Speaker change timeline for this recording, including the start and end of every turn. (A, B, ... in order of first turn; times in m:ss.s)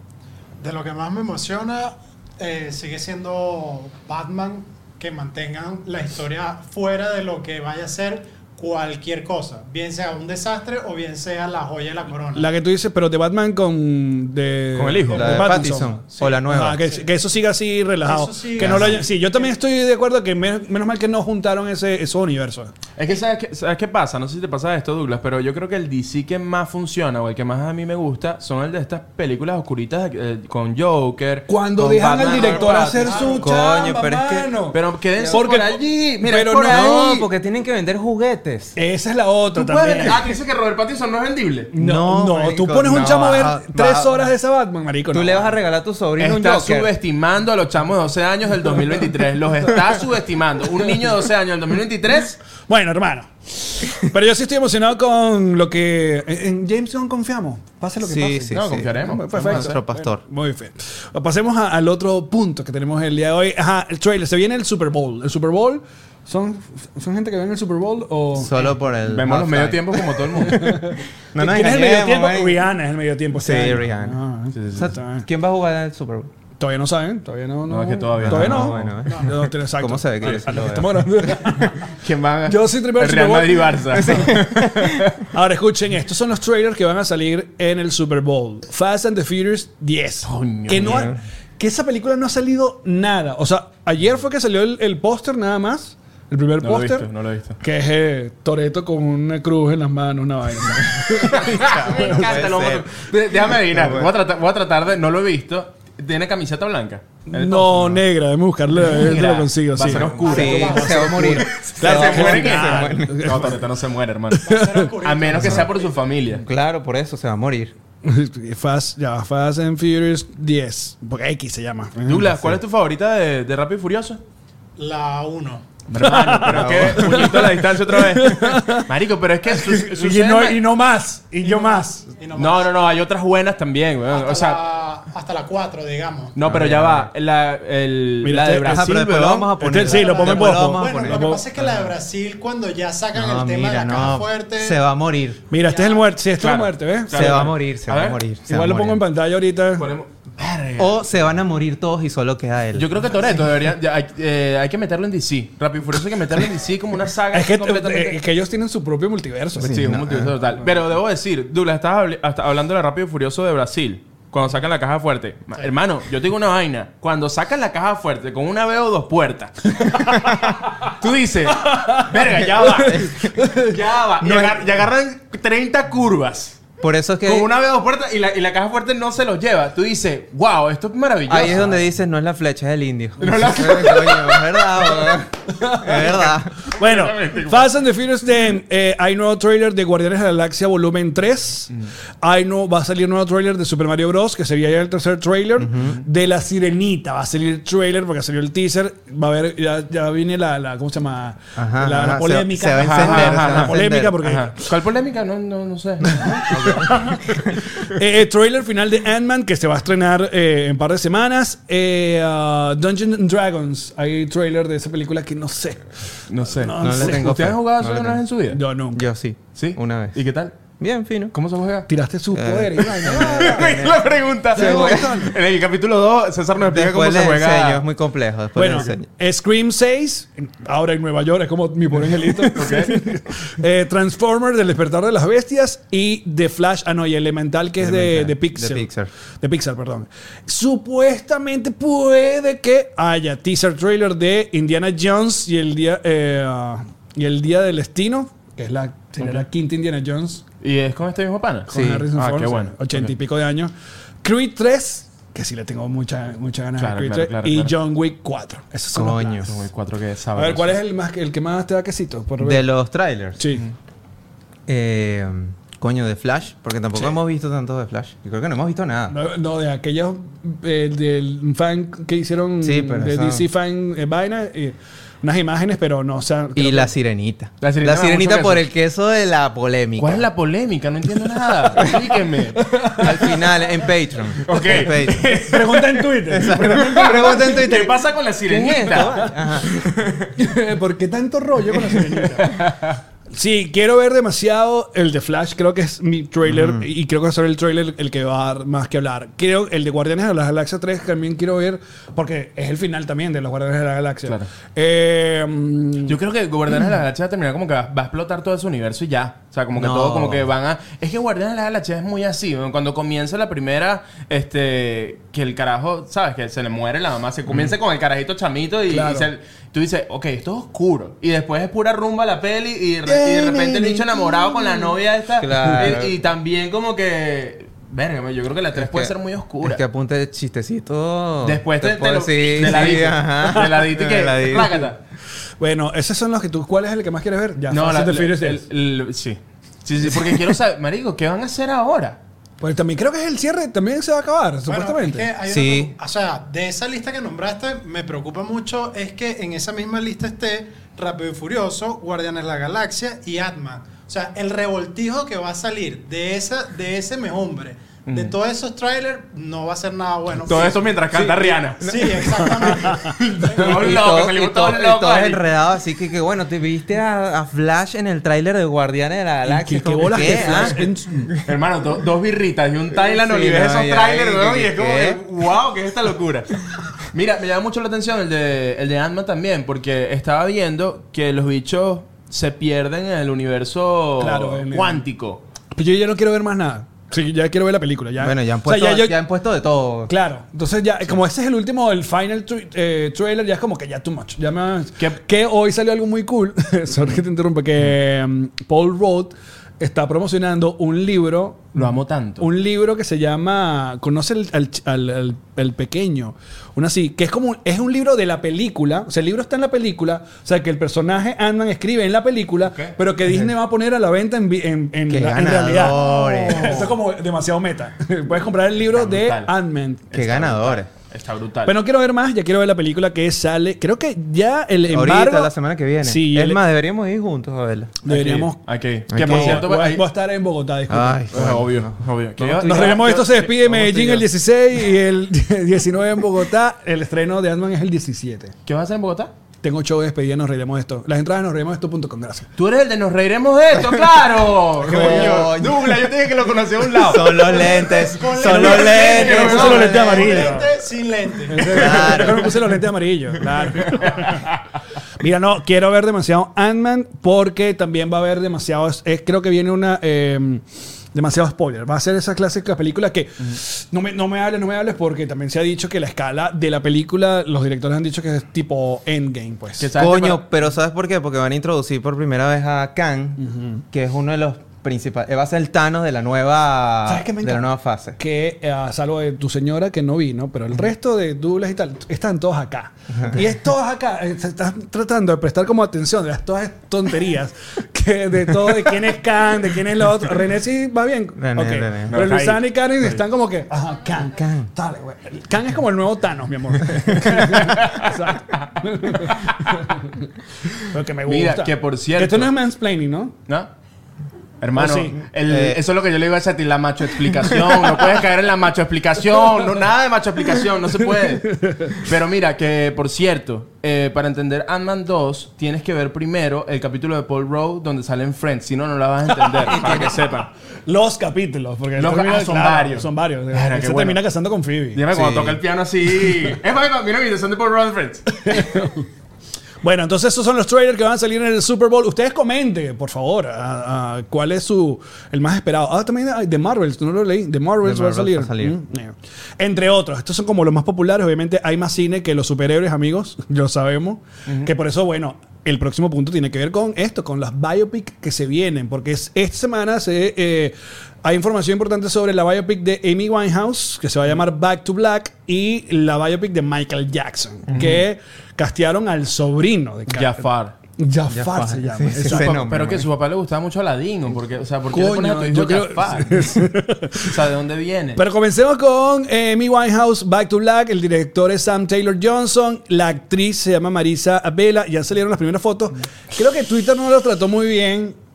0:00.6-0:12.5 A
0:12.4-0:22.7 B
0:14.8-0:15.5 C
0:15.1-0:16.8 D
0:15.2-0:15.5 A
0:18.0-0:19.4 A
0:18.6-0:19.0 D
0:23.0-0:33.3 C
0:31.5-0:37.0 B
0:32.2-0:33.6 A
0:33.4-0:34.5 D
0:34.7-0:37.3 C
0:36.6-0:38.8 D
0:38.8-0:40.2 B
0:39.6-0:41.7 C
0:41.7-0:45.6 B
0:41.8-0:44.3 D
0:45.1-0:46.9 D
0:46.2-0:52.4 C
0:52.7-1:08.6 B
0:58.0-1:00.2 D
0:58.5-0:59.8 C
1:08.3-1:12.6 D
1:09.1-1:10.7 C
1:10.4-1:15.3 B
1:13.4-1:14.2 D
1:14.5-1:14.9 C
1:14.8-1:16.3 D
1:16.6-1:21.9 B
1:17.7-1:19.0 C
1:18.2-1:21.5 D
1:22.0-1:25.2 C
1:22.5-1:24.3 B
1:23.9-1:25.1 D
1:25.3-1:37.1 B
1:30.2-1:31.1 C
1:30.8-1:31.2 D
1:36.6-1:37.6 C
1:37.6-1:42.3 B
1:41.1-1:44.1 D
1:41.2-1:48.0 C
1:47.3-1:53.6 B
1:48.8-1:54.5 C
1:49.8-1:53.5 D
1:50.1-1:51.2 A
1:54.4-1:55.9 A
1:54.5-1:54.8 B
1:55.0-1:56.4 C
1:55.4-1:55.7 D
1:56.3-1:57.8 D
1:58.0-2:02.5 B
2:02.1-2:04.2 C
2:04.8-2:05.7 A
2:05.9-2:10.6 C
2:06.0-2:08.9 B
2:06.4-2:07.2 D
2:09.5-2:12.1 B
2:11.4-2:12.7 A
2:12.4-2:14.6 C
2:14.1-2:16.4 A
2:16.4-2:19.6 C
2:16.4-2:17.1 D
2:18.2-2:21.4 B
2:18.7-2:21.8 D
2:19.8-2:24.8 A
2:23.1-2:25.4 D
2:25.5-2:27.4 B
2:25.6-2:26.1 A
2:26.4-2:28.2 C
2:27.1-2:29.0 D
2:28.5-2:29.9 B
2:29.8-2:31.0 C
2:30.8-2:33.1 D
2:32.8-2:38.2 C
2:37.3-2:39.8 B
2:39.6-2:40.4 D
2:39.6-2:56.6 C
2:49.9-2:50.4 B
2:51.6-2:53.8 B
2:52.8-2:53.4 D
2:54.3-2:54.5 D
2:56.8-2:57.5 D
2:57.2-3:01.7 C
3:01.3-3:06.5 D
3:03.2-3:05.2 C
3:05.5-3:24.7 B
3:06.8-3:07.7 C
3:15.6-3:16.0 D
3:21.6-3:24.2 D
3:22.8-3:26.5 C
3:26.0-3:27.5 D
3:26.3-3:35.9 B
3:36.3-3:38.6 C
3:36.5-3:37.3 B
3:36.8-3:38.2 D
3:38.5-3:39.0 B
3:38.9-3:40.2 D
3:39.6-3:40.5 C
3:40.8-3:41.4 D
3:41.3-3:41.9 C
3:41.9-3:44.0 B
3:42.3-3:45.1 D
3:43.0-3:47.8 C
3:44.5-3:45.3 B
3:46.6-3:49.0 D
3:48.6-4:10.4 B
3:52.5-3:53.0 C
3:57.8-3:59.1 D
4:10.6-4:13.1 C
4:11.7-4:13.7 B
4:11.7-4:12.1 D
4:14.2-4:19.4 B
4:16.8-4:17.7 C
4:18.9-4:19.6 D
4:19.4-4:20.8 C
4:20.4-4:22.6 B
4:22.4-4:23.5 D
4:23.4-4:23.7 B
4:24.7-4:29.2 D
4:29.1-4:36.9 B
4:32.6-4:33.4 D
4:36.6-4:40.2 D
4:37.6-4:38.6 C
4:40.0-4:42.7 C
4:42.6-4:43.1 B
4:43.0-4:45.4 D
4:44.5-4:50.3 C
4:45.2-4:47.6 B
4:46.3-4:50.0 D
4:50.4-4:52.6 B
4:52.4-4:53.0 C
4:53.3-5:06.2 B
4:56.5-4:56.9 D
5:06.1-5:29.8 C
5:09.8-5:10.5 D
5:17.5-5:17.7 D
5:18.9-5:19.3 B
5:23.1-5:23.8 B
5:23.1-5:24.1 D
5:25.4-5:26.1 D
5:28.7-5:34.9 D
5:31.4-5:35.0 C
5:35.6-5:38.6 B
5:37.7-5:42.2 C
5:42.6-5:45.3 B
5:44.7-6:00.9 A
5:45.4-5:45.9 D
5:58.1-5:58.3 C
6:00.5-6:02.1 C
6:01.1-6:03.2 B
6:01.8-6:03.6 A
6:03.2-6:05.4 C
6:03.6-6:11.4 D
6:09.4-6:11.3 B
6:11.4-6:25.4 C
6:13.1-6:15.2 D
6:24.2-6:25.0 B
6:25.8-6:29.2 B
6:28.2-6:30.1 D
6:30.1-6:41.9 B
6:41.8-6:42.5 C
6:42.4-7:00.1 B
6:52.7-6:53.0 C
6:53.3-6:53.5 D
6:55.1-6:56.9 D
6:58.9-6:59.5 C
7:00.1-7:01.7 C
7:00.1-7:00.9 D
7:01.7-7:05.5 B
7:04.9-7:08.0 D
7:06.0-7:06.6 B
7:08.0-7:08.6 B
7:08.1-7:10.0 C
7:09.1-7:09.7 D
7:09.2-7:11.3 B
7:10.9-7:12.6 D
7:11.3-7:14.3 C
7:12.4-7:18.5 B
7:18.7-7:19.3 C
7:19.6-7:22.5 B
7:22.6-7:27.7 C
7:24.8-7:26.0 D
7:24.9-7:25.5 B
7:27.0-7:30.5 D
7:27.2-7:32.2 A
7:28.4-7:30.0 C
7:29.1-7:30.7 B
7:31.5-7:34.5 B
7:31.6-7:32.6 D
7:34.0-7:34.4 C
7:35.2-7:40.6 B
7:41.1-7:49.9 B
7:49.8-7:50.4 C
7:50.0-7:58.2 D
7:53.4-7:53.8 B
7:57.1-8:23.3 B
8:11.4-8:12.2 D
8:12.1-8:13.2 C
8:14.3-8:14.7 D
8:17.2-8:18.6 C
8:19.3-8:19.8 C
8:21.3-8:22.5 C
8:24.6-8:40.5 C
8:24.8-8:25.2 B
8:25.4-8:25.8 D
8:31.5-8:32.0 B
8:39.6-8:40.1 B
8:39.7-8:40.2 D
8:40.9-8:45.0 B
8:42.0-8:44.2 C
8:45.0-8:48.4 C
8:45.1-8:45.6 D
8:48.4-8:49.1 B
8:49.8-9:20.4 B
8:57.8-8:58.8 D
9:17.7-9:18.0 C
9:20.1-9:20.8 C
9:21.0-9:22.6 B
9:21.3-9:23.1 D
9:22.2-9:26.6 C
9:24.9-9:27.4 B
9:27.2-9:28.2 C
9:28.2-9:38.2 B